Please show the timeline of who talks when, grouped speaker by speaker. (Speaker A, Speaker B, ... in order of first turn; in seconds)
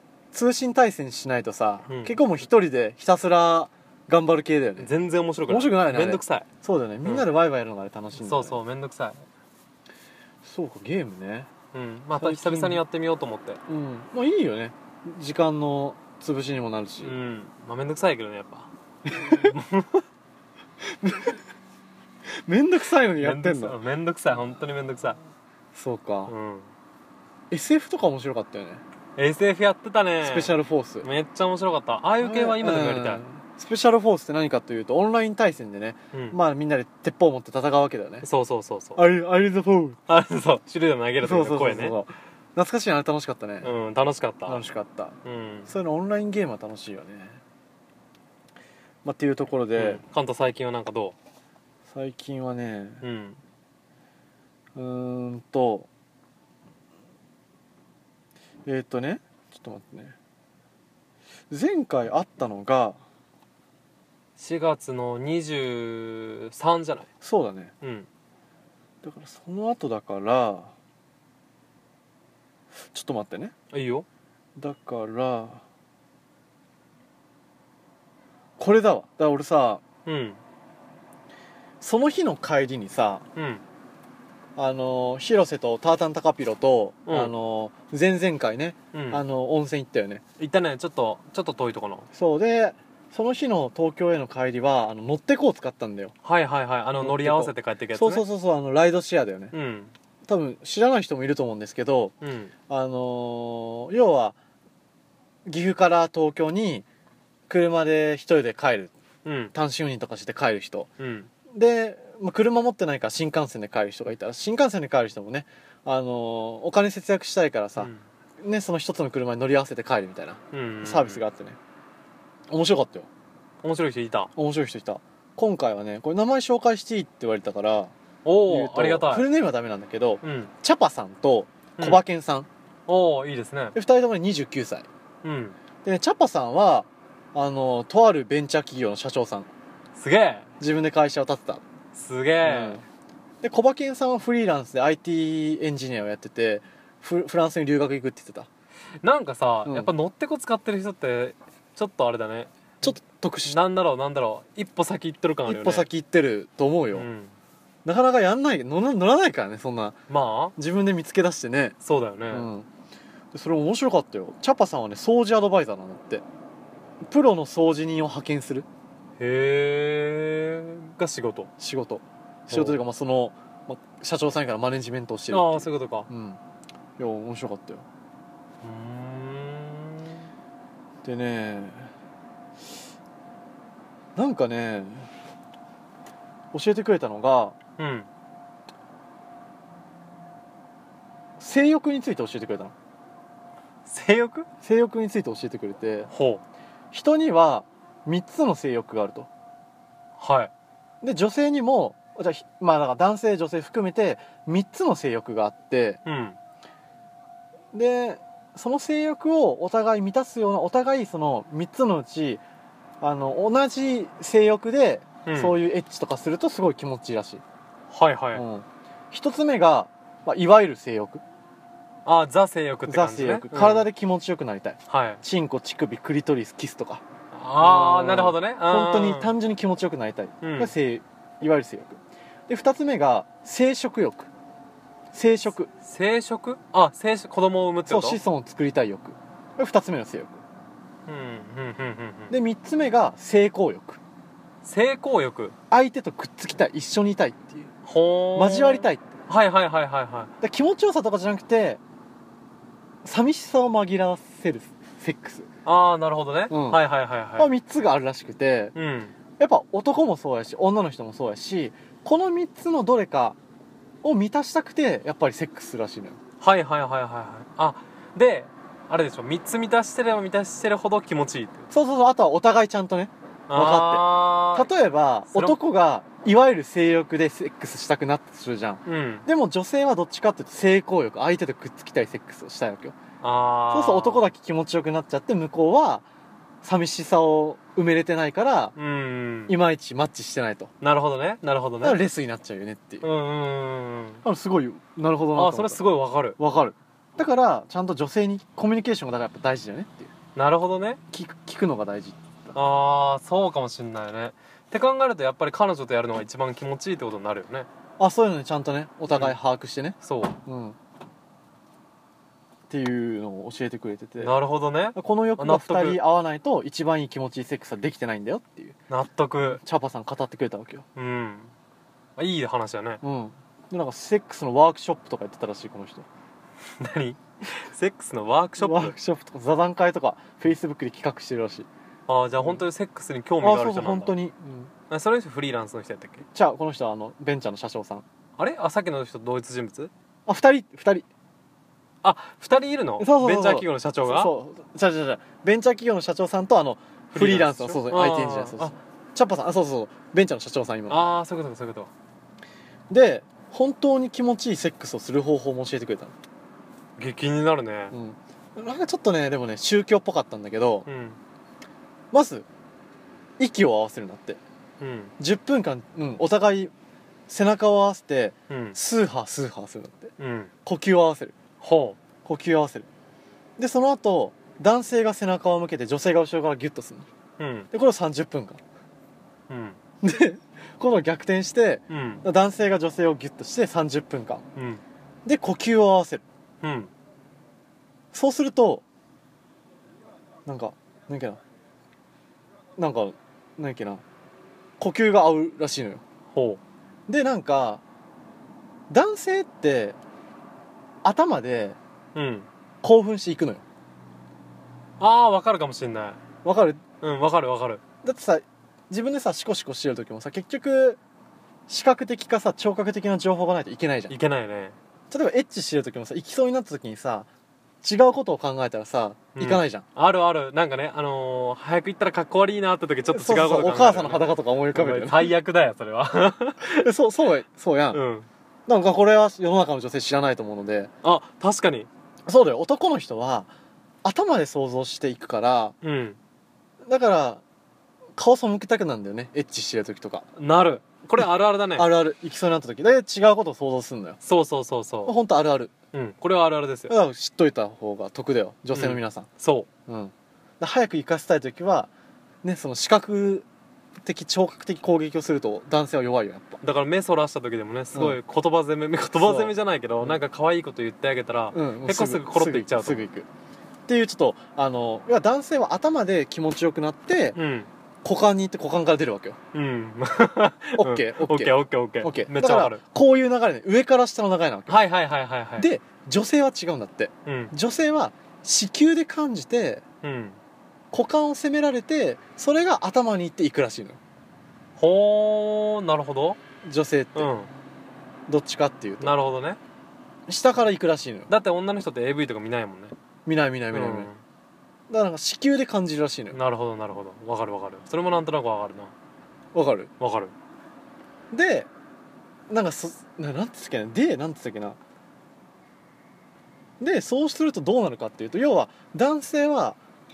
Speaker A: 0.3-4.9, 5.5-8.6, 10.4-11.5, 12.1-12.8, 13.7-17.1, 19.1-19.5, 21.0-21.4, 22.4-23.8, 25.7-26.3, 27.5-28.8, 30.2-31.1, 32.2-38.3, 39.0-40.0, 41.2-43.7, 44.5-45.1, 45.7-47.4, 49.0-50.0, 51.9-53.0, 54.7-55.9, 58.6-60.1, 61.5-63.0, 67.2-67.7, 69.0-70.7, 72.9-73.5, 74.6-75.6, 78.6-79.8, 81.8-83.2, 84.6-90.2, 92.1-96.1, 97.0-99.5, 100.3-102.1, 102.7-104.3, 105.5-106.8, 107.5-108.9, 109.5-110.9, 111.5-117.9, 118.4-121.6, 122.5-123.1, 124.4-127.9, 128.5-132.5, 133.7-134.9, 135.8-139.5, 140.6-141.6, 142.4-142.8, 143.4-148.5, 152.8-153.6, 155.4-157.1, 157.8-160.0, 160.6-161.7, 162.3-162.7, 163.3-166.2, 167.0-168.7, 171.6-176.4, 177.0-177.8, 181.0-181.9, 184.2-185.1, 186.5-187.6, 191.4-192.7, 194.6-196.1, 196.9-199.3, 201.0-206.0, 207.7-212.4, 213.0-217.4, 218.3-221.2, 222.9-227.0, 227.6-234.3, 235.1-235.7, 237.9-240.4, 242.3-244.0, 245.7-247.7, 248.3-249.0, 250.4-251.8, 253.0-255.5, 256.5-256.8, 257.4-258.7, 259.4-263.4, 264.0-266.2, 271.7-282.9, 283.7-286.1, 286.6-288.7, 289.5-290.7, 291.8-293.0, 294.2-295.8, 296.4-300.1, 301.1-302.6, 308.0-310.8, 312.7-314.4, 314.9-318.8, 319.4-320.8, 323.0-326.1, 328.6-331.7, 333.4-334.7, 336.3-338.0, 340.3-341.1, 343.0-351.0, 352.9-356.1, 357.9-360.9, 362.1-362.5, 363.4-364.4, 365.2-366.7, 367.3-370.1, 370.6-371.4, 372.2-372.9, 373.6-377.1, 377.7-378.6, 380.0-384.4, 385.2-386.2, 388.1-388.8, 390.4-391.4, 392.8-394.0, 394.8-396.0, 397.1-397.8, 398.9-400.0, 401.0-401.8, 402.8-403.6, 406.4-406.8, 408.0-411.0, 411.7-414.1, 415.1-417.3, 417.8-419.8, 423.1-425.3, 426.8-428.0, 428.7-430.9, 432.3-433.5, 434.0-435.7, 436.8-437.4, 438.2-440.3, 441.2-444.2, 445.0-445.7, 446.9-449.3, 449.9-451.9, 452.4-453.4, 454.0-456.6, 457.9-458.2, 459.1-460.2, 461.5-463.3, 463.9-467.4, 468.0-469.4, 470.8-474.7, 475.6-479.8, 480.9-484.0, 486.6-487.3, 488.3-489.1, 490.3-491.3, 493.2-494.1, 494.9-496.4, 499.5-499.9, 501.3-501.7, 502.5-504.8, 506.8-509.8
Speaker B: 1.9-2.2, 4.8-6.5, 8.2-9.2, 11.7-13.6, 17.0-20.0, 23.2-25.2, 26.3-26.7, 29.1-30.5, 31.0-33.2, 36.1-36.4, 38.2-39.0, 40.1-42.0, 43.6-44.6, 45.2-45.7, 49.8-51.1, 53.0-53.4, 64.4-67.1, 67.8-68.1, 73.7-74.0, 80.0-80.4, 83.3-83.6, 87.0-87.3, 88.9-89.2, 90.4-92.1, 96.2-98.2, 99.5-99.9, 102.2-102.5, 109.2-109.5, 111.0-111.3, 117.8-118.0, 120.5-121.2, 123.6-124.3, 128.2-129.3, 130.2-130.5, 132.9-133.8, 135.2-135.6, 139.9-140.5, 141.9-142.8, 149.0-155.9, 156.9-157.3, 160.1-160.5, 161.8-162.5, 169.2-171.5, 172.5-172.8, 175.3-176.1, 178.6-180.3, 187.8-188.1, 193.8-194.5, 196.1-196.4, 200.2-200.5, 206.0-206.4, 215.2-215.6, 217.9-218.4, 222.0-223.9, 224.9-225.2, 227.3-229.3, 230.4-230.7, 235.8-238.2, 241.1-242.3, 244.6-245.5, 247.8-250.3, 255.6-257.5, 258.7-259.1, 266.4-271.7, 273.5-274.7, 275.3-275.6, 278.9-279.2, 283.2-284.3, 288.8-289.6, 290.8-292.0, 293.0-294.2, 295.3-296.4, 300.3-301.0, 302.5-307.7, 309.1-309.4, 310.0-310.4, 314.2-316.0, 318.9-319.6, 320.9-321.5, 322.2-323.0, 326.8-328.9, 332.1-334.1, 334.9-336.2, 338.4-339.9, 342.0-344.3, 347.1-348.7, 350.9-351.9, 357.0-357.9, 360.9-361.2, 364.8-365.1, 368.5-368.8, 370.2-370.5, 371.6-372.0, 377.4-377.7, 379.5-379.8, 381.9-382.2, 384.6-384.8, 386.6-386.9, 396.3-396.6, 402.1-402.5, 405.0-406.2, 407.0-407.8, 414.1-414.8, 419.4-426.9, 427.9-428.3, 431.0-431.9, 435.8-436.2, 440.4-441.9, 444.2-445.1, 445.9-446.9, 448.7-449.7, 456.6-463.1, 467.3-467.7, 469.5-472.8, 474.7-475.7, 477.2-477.5, 480.0-480.4, 484.8-486.4, 487.1-487.5, 489.0-489.6, 491.3-492.9, 493.7-494.2, 496.3-498.9, 500.0-500.3